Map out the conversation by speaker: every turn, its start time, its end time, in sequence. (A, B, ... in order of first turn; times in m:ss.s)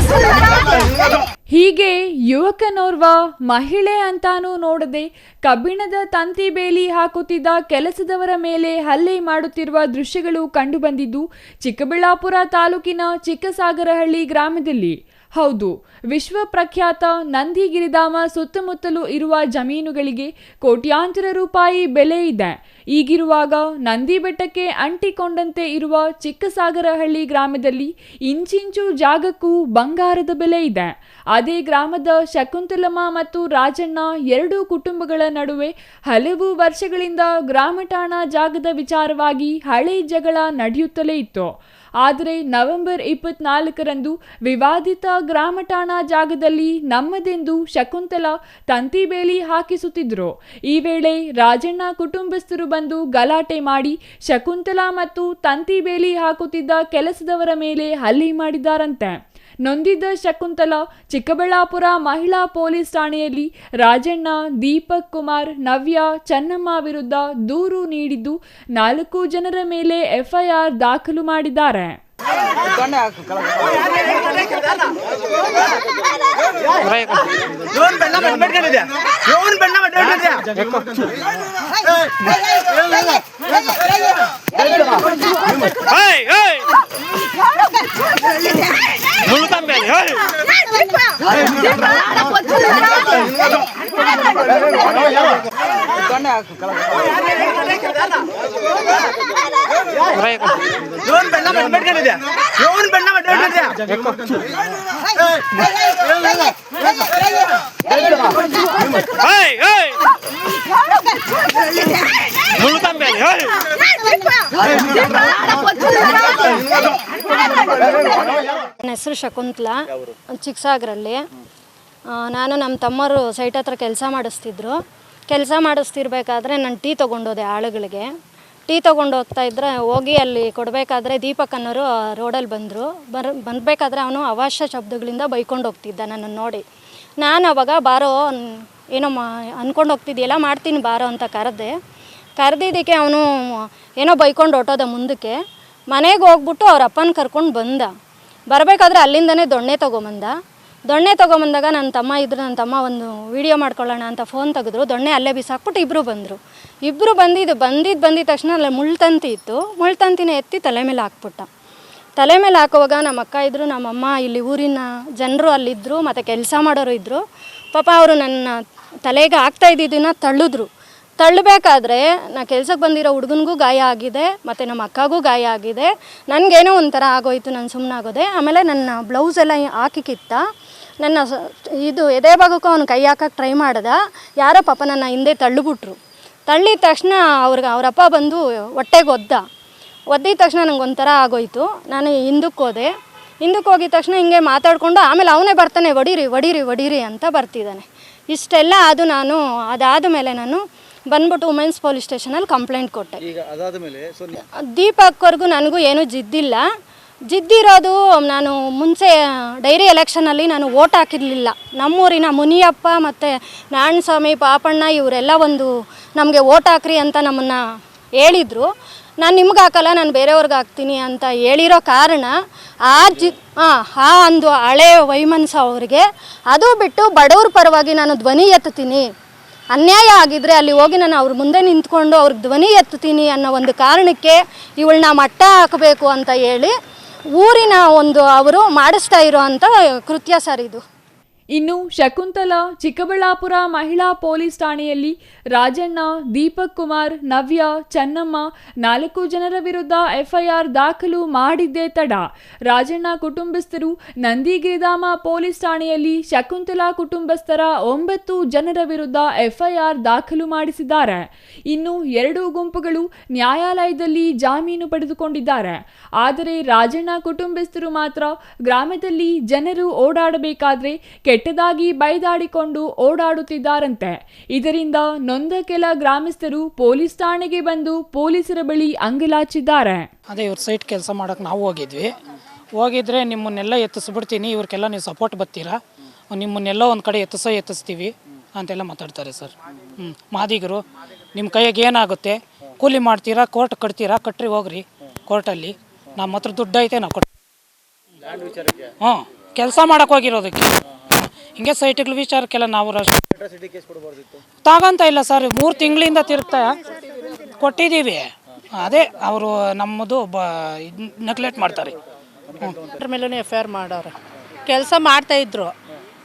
0:01.5-0:41.5 A
0:42.0-1:12.0 A
1:17.7-1:20.5 B
1:26.0-1:26.6 B
1:29.3-1:30.2 B
1:41.1-1:43.8 B
1:49.3-1:49.9 B
1:52.6-1:53.4 B
1:58.8-1:59.8 C
2:00.3-2:01.2 C
2:02.1-2:04.8 C
2:05.3-2:08.1 C
2:08.7-2:16.6 C
2:17.2-2:21.7 C
2:22.4-2:25.4 C
2:25.9-2:27.9 C
2:28.5-2:30.3 C
2:30.9-2:41.5 C
2:42.2-2:47.2 C
2:47.7-3:00.4 C
3:01.0-3:06.0 C
3:06.5-3:09.4 C
3:10.1-3:12.9 C
3:13.4-3:23.2 C
3:23.4-3:24.4 B
3:24.7-3:26.6 C
3:27.3-3:37.6 C
3:38.2-3:38.7 C
3:39.2-3:49.1 C
3:49.7-3:56.7 C
3:57.3-4:00.8 C
4:01.5-4:40.1 A
4:40.3-4:42.1 D
4:42.8-4:45.8 D
4:46.3-4:50.8 D
4:51.3-4:57.3 D
4:58.3-4:58.8 B
4:59.0-5:00.8 D
5:01.6-5:03.2 D
5:03.6-5:04.0 B
5:04.6-5:06.8 D
5:07.3-5:11.9 D
5:12.9-5:14.1 E
5:14.6-5:15.7 E